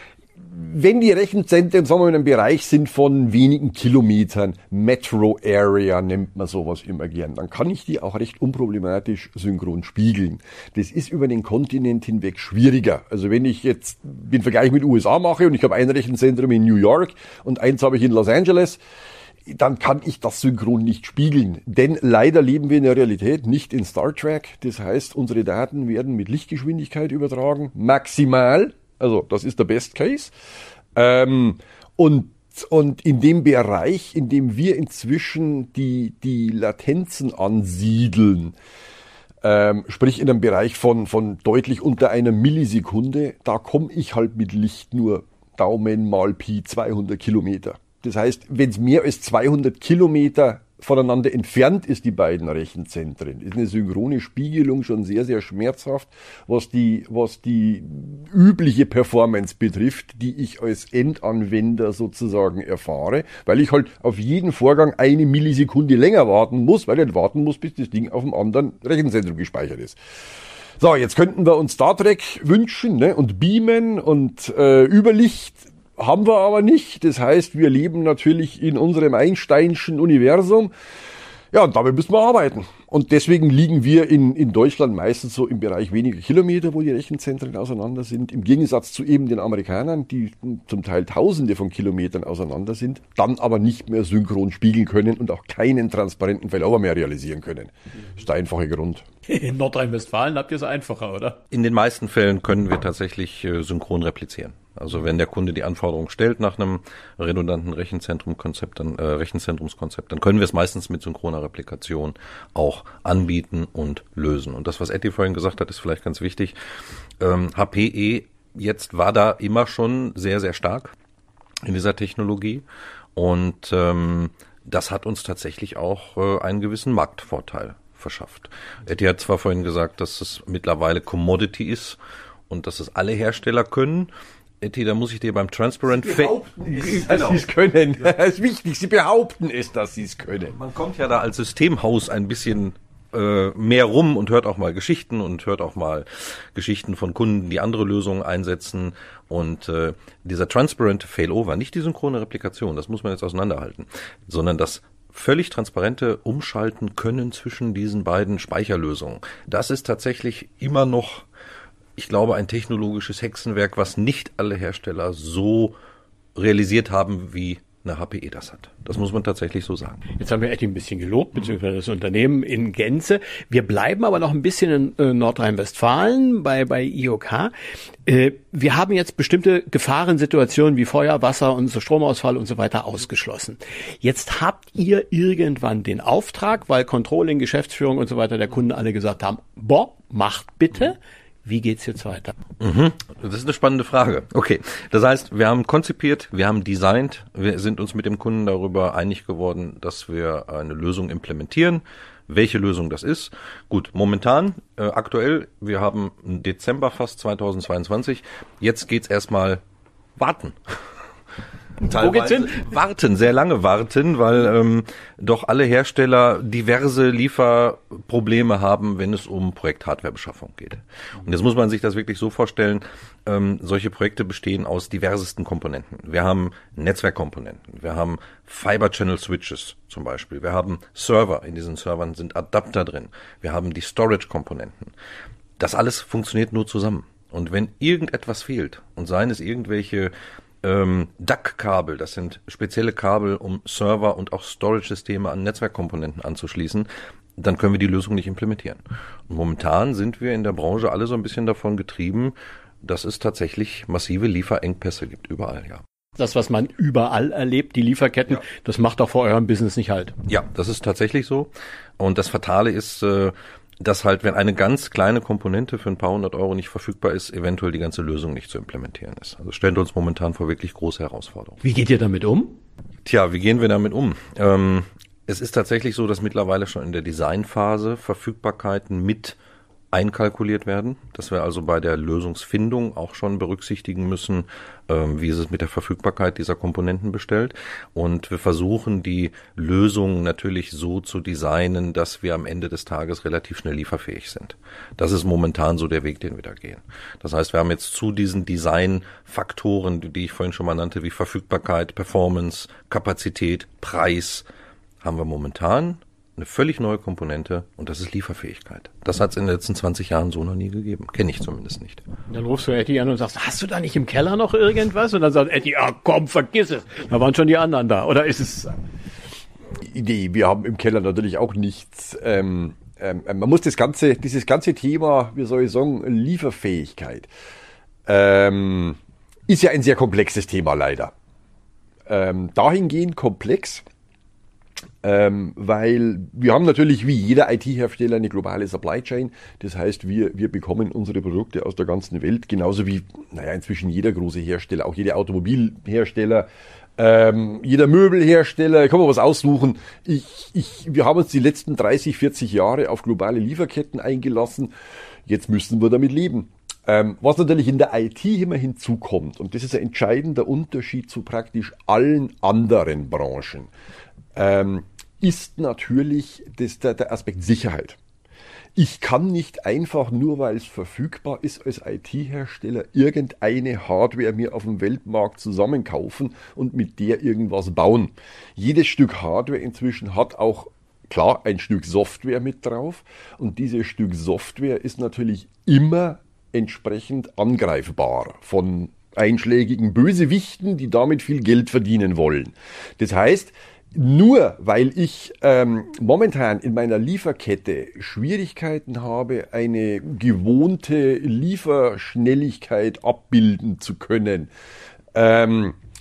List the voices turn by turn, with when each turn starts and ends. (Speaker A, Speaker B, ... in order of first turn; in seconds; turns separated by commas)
Speaker A: 0.4-18.8, Speaker A: 19.5-30.3, Speaker A: 30.9-38.5, Speaker A: 39.4-70.0, Speaker A: 70.8-80.7, Speaker A: 81.5-99.0, Speaker B: 99.3-101.4, Speaker C: 101.5-116.5, Speaker C: 117.2-120.9, Speaker C: 121.6-122.6, Speaker C: 123.2-132.0, Speaker C: 132.5-134.1, Speaker C: 134.6-137.5, Speaker A: 136.0-140.6, Speaker C: 140.5-161.3, Speaker C: 162.0-165.8, Speaker C: 166.4-170.0, Speaker B: 170.2-177.5, Speaker B: 178.1-192.3, Speaker C: 192.6-209.6, Speaker C: 210.2-210.8, Speaker C: 211.8-234.9, Speaker B: 211.9-212.6, Speaker C: 235.6-255.8, Speaker B: 256.2-260.1, Speaker C: 260.3-271.6, Speaker B: 271.6-272.6, Speaker C: 273.1-279.4, Speaker C: 279.9-304.5, Speaker C: 305.0-312.0, Speaker B: 312.3-318.8, Speaker A: 319.9-327.3, Speaker A: 328.1-329.0, Speaker A: 329.5-331.1, Speaker A: 332.1-333.8, Speaker A: 335.0-354.7, Speaker A: 355.3-363.7, Speaker A: 364.4-368.0, Speaker A: 368.8-404.5, Speaker A: 405.1-405.8